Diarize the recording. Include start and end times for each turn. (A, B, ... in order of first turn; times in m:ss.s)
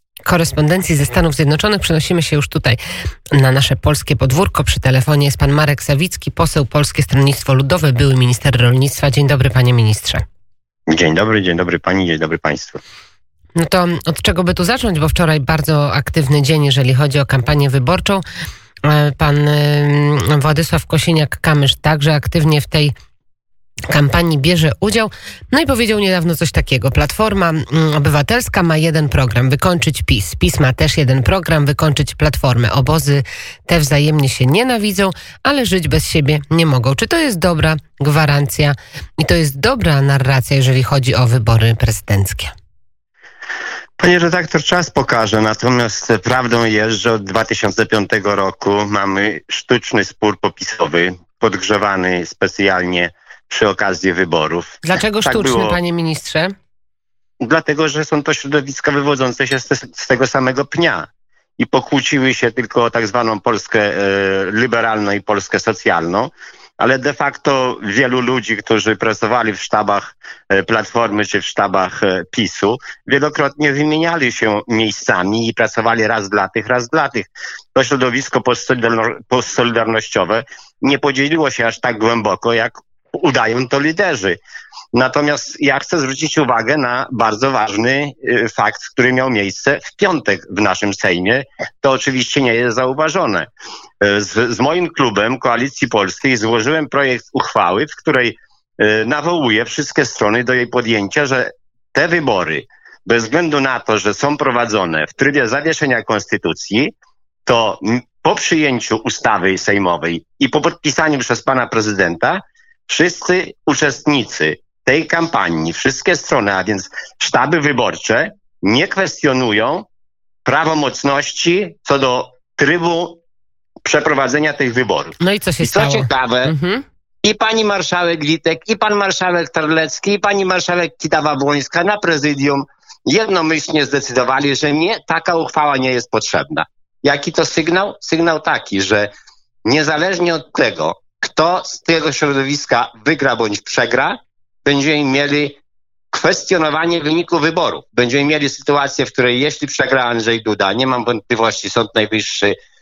0:00.3-0:02.8 A
0:03.4-0:10.2 A
0:10.9-0:12.8 B
0:13.6-0:18.2 A
0:18.8-0:22.9 A
0:23.9-0:42.5 A
0:44.0-0:55.8 B
0:54.8-0:56.5 A
0:57.4-1:01.1 B
1:01.6-1:24.4 B
1:24.9-1:33.5 B
1:34.0-1:46.9 B
1:47.5-1:59.9 B
2:00.4-2:03.2 B
2:03.8-2:06.5 B
2:05.2-2:06.8 A
2:07.2-2:19.1 B
2:19.6-2:25.6 B
2:26.1-2:32.6 B